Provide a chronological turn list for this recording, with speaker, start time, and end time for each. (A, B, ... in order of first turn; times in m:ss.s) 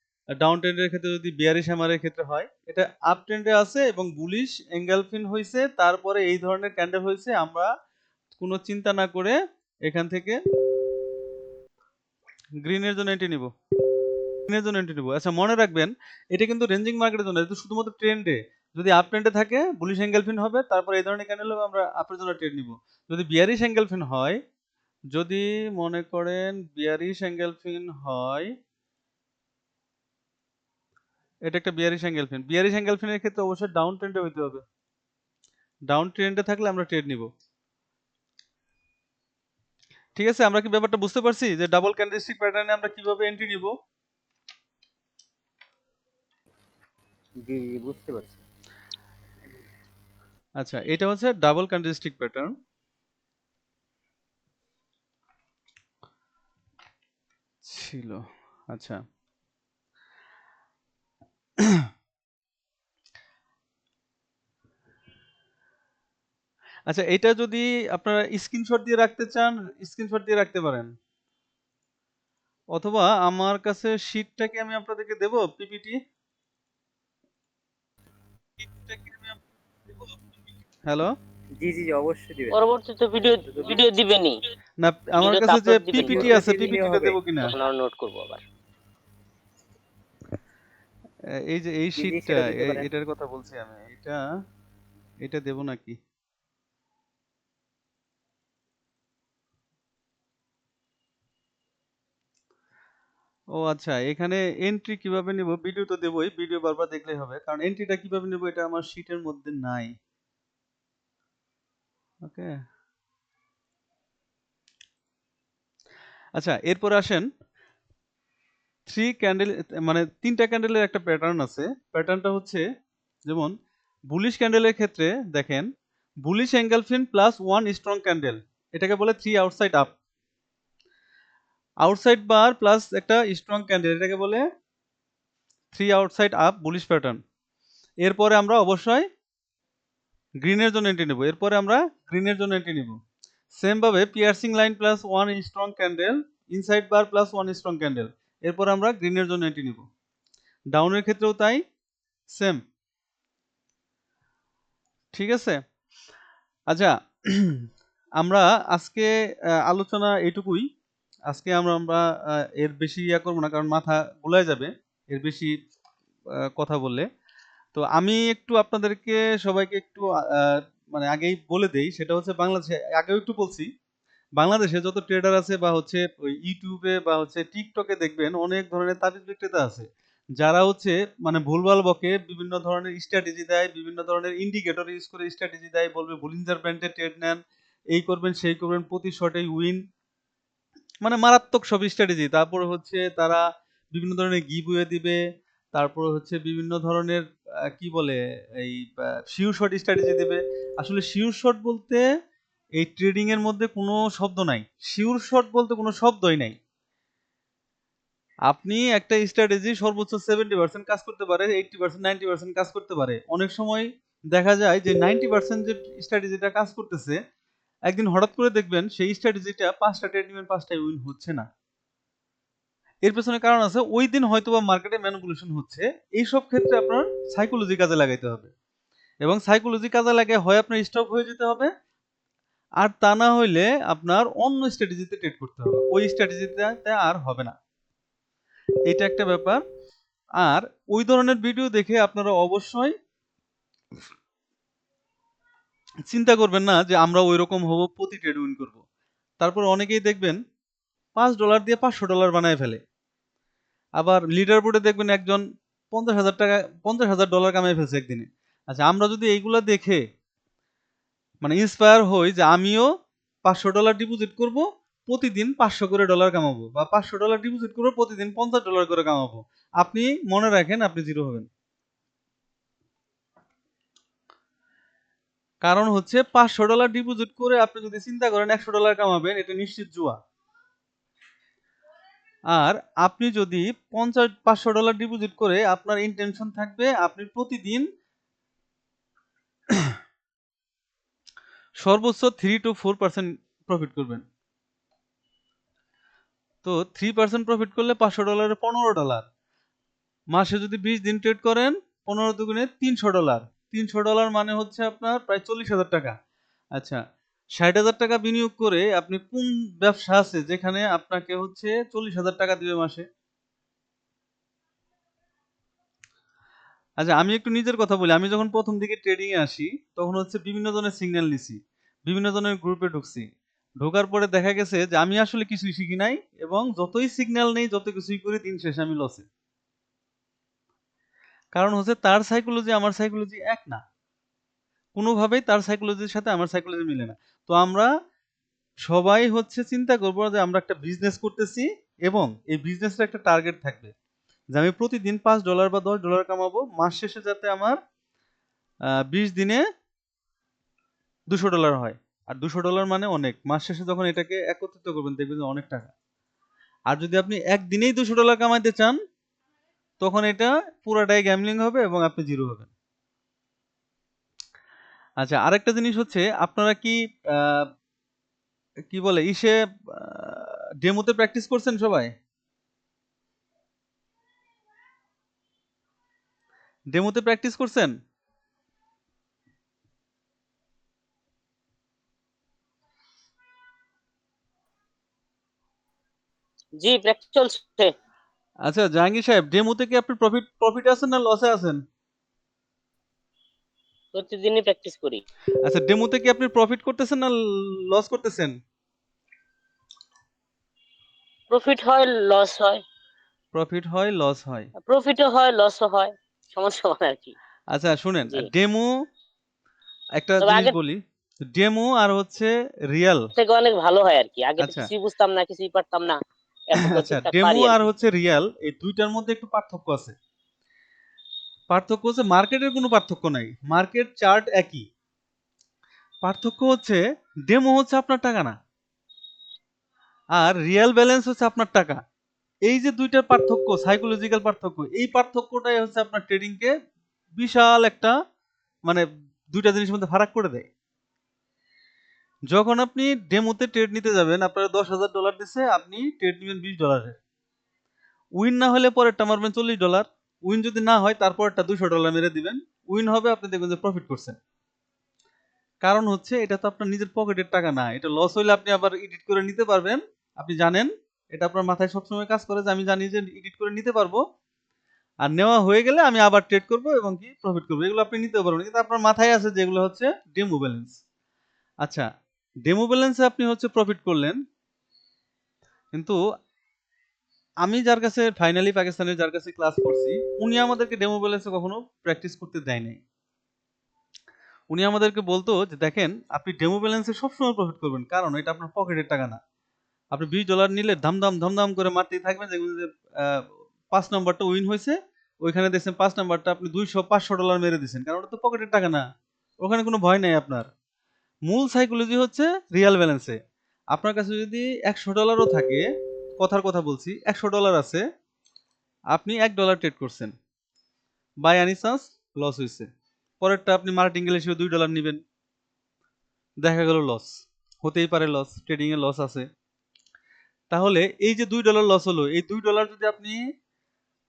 0:00.4-0:07.7 A
0:08.4-0:10.4 A
0:12.6-0:13.5 A
0:14.5-0:24.4 A
0:25.1-0:28.5 A
0:31.5-0:34.6 A
0:35.9-0:37.3 A
0:40.2-0:43.7 A
0:47.4-0:48.4 B
0:50.6-0:52.5 A
0:57.6-0:59.0 A
1:01.6-1:01.9 A
1:06.9-1:10.9 A
1:12.7-1:16.0 A
1:20.9-1:21.1 A
1:21.6-1:22.6 B
1:22.5-1:24.4 C
1:24.8-1:27.5 A
1:25.2-1:26.8 C
1:26.0-1:27.2 B
1:27.4-1:28.4 C
1:31.5-1:34.2 A
1:31.9-1:32.9 B
1:35.2-1:36.0 A
1:43.6-1:49.9 A
1:52.2-1:52.5 A
1:56.4-1:57.3 A
1:58.9-2:02.6 A
2:04.1-2:05.7 A
2:06.2-2:09.9 A
2:11.8-2:14.4 A
2:15.7-2:17.2 A
2:18.0-2:19.1 A
2:20.4-2:23.0 A
2:23.5-2:29.8 A
2:30.7-2:31.6 A
2:32.3-2:32.6 A
2:35.1-2:35.6 A
2:36.7-2:37.6 A
2:38.2-2:39.1 A
2:39.7-2:40.6 A
2:41.3-2:42.0 A
2:42.6-2:45.5 A
2:46.6-2:47.0 A
2:47.7-2:53.7 A
2:54.4-2:59.9 A
3:00.4-3:07.4 A
3:07.9-3:09.8 A
3:11.0-3:13.4 A
3:13.9-3:15.2 A
3:15.7-3:17.2 A
3:17.8-3:22.0 A
3:22.8-3:26.5 A
3:28.5-3:37.2 A
3:37.9-3:41.4 A
3:43.0-3:48.5 A
3:49.2-3:51.7 A
3:52.8-3:57.5 A
3:58.9-3:59.6 A
4:00.4-4:02.9 A
4:06.1-4:08.8 A
4:09.4-4:10.4 A
4:11.2-4:12.8 A
4:14.0-4:20.0 A
4:21.4-4:22.9 A
4:23.4-4:31.5 A
4:35.6-4:40.2 A
4:42.5-4:47.8 A
4:51.8-4:54.2 A
4:56.6-4:59.2 A
5:00.3-5:06.1 A
5:07.6-5:13.0 A
5:17.0-5:23.3 A
5:23.8-5:29.2 A
5:31.5-5:33.8 A
5:35.0-5:37.9 A
5:38.9-5:43.9 A
5:44.5-5:47.8 A
5:49.1-5:49.6 A
5:51.3-5:55.9 A
5:56.9-5:59.0 A
6:00.0-6:02.7 A
6:05.2-6:07.6 A
6:08.9-6:12.1 A
6:16.9-6:17.9 A
6:26.8-6:27.9 C
6:28.6-6:31.8 A
6:34.1-6:35.2 C
6:35.6-6:37.4 A
6:37.9-6:38.5 A
6:41.5-6:42.8 C
6:43.5-6:44.7 A
6:44.8-6:47.3 C
6:47.7-6:48.9 A
6:50.2-6:51.0 A
6:50.4-6:50.7 C
6:51.5-6:53.2 A
6:53.3-6:56.2 C
6:54.6-6:54.9 A
6:56.7-6:57.8 C
6:56.9-7:00.1 A
7:01.7-7:04.8 A
7:06.2-7:08.5 A
7:10.3-7:12.0 A
7:12.7-7:16.7 A
7:17.4-7:18.1 A
7:18.9-7:20.7 A
7:22.5-7:27.2 A
7:28.4-7:34.4 A
7:35.8-7:44.2 A
7:45.2-7:51.0 A
7:52.6-7:54.4 A
7:57.6-8:03.0 A
8:04.7-8:09.4 A
8:10.1-8:13.4 A
8:13.9-8:19.0 A
8:19.6-8:20.7 A
8:21.5-8:23.4 A
8:23.9-8:25.8 A
8:26.4-8:28.0 A
8:29.1-8:30.3 A
8:31.4-8:32.9 A
8:33.4-8:35.2 A
8:36.6-8:37.3 A
8:37.8-8:39.4 A
8:40.7-8:43.4 A